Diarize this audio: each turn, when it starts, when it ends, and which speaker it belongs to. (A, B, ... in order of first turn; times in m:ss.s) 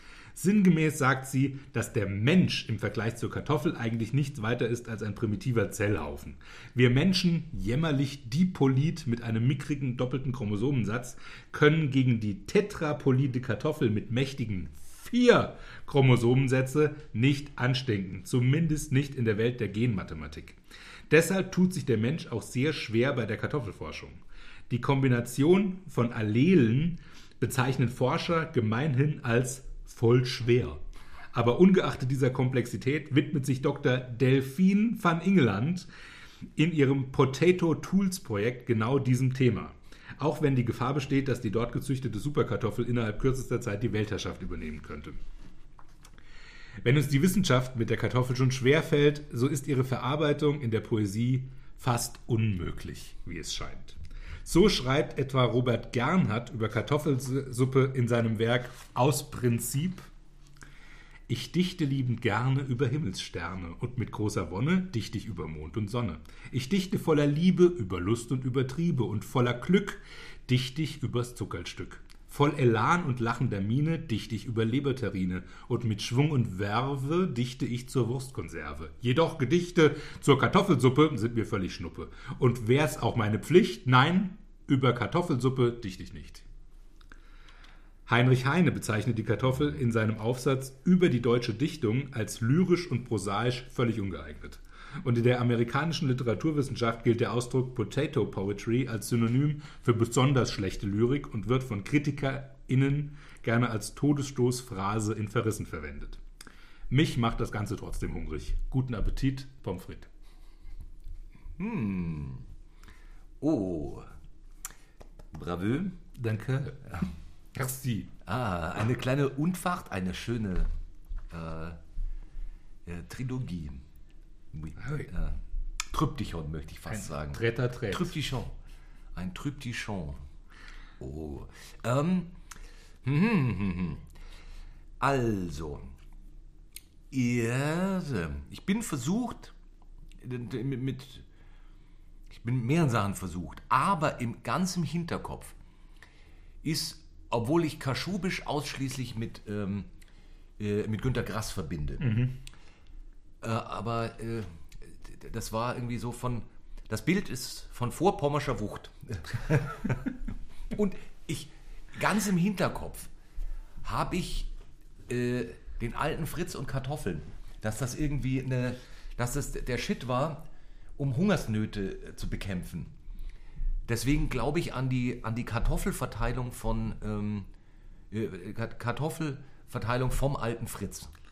0:00.4-0:20.6 A
0:21.1-0:30.8 A
0:31.3-0:35.9 A
0:36.6-0:45.2 A
0:46.8-1:00.1 A
1:01.3-1:26.4 A
1:28.1-1:46.2 A
1:46.9-1:50.1 A
1:51.6-1:52.4 B
1:53.4-1:54.1 B
1:55.3-1:56.0 B
1:56.1-1:57.0 A
1:57.5-1:58.1 A
1:58.2-2:00.7 B
2:01.3-2:01.8 B
2:02.8-2:03.8 B
2:04.5-2:08.6 B
2:04.8-2:05.1 A
2:06.9-2:08.1 A
2:09.1-2:10.2 B
2:11.0-2:12.3 B
2:13.0-2:14.0 B
2:15.0-2:15.9 B
2:17.1-2:19.6 B
2:20.2-2:21.3 B
2:22.3-2:25.6 B
2:26.6-2:29.9 B
2:30.6-2:32.1 B
2:32.0-2:32.3 A
2:33.4-2:40.2 B
2:40.7-2:43.1 B
2:43.8-2:44.5 B
2:45.1-2:50.4 B
2:51.0-2:52.9 B
2:53.9-2:57.5 B
2:58.1-3:01.1 B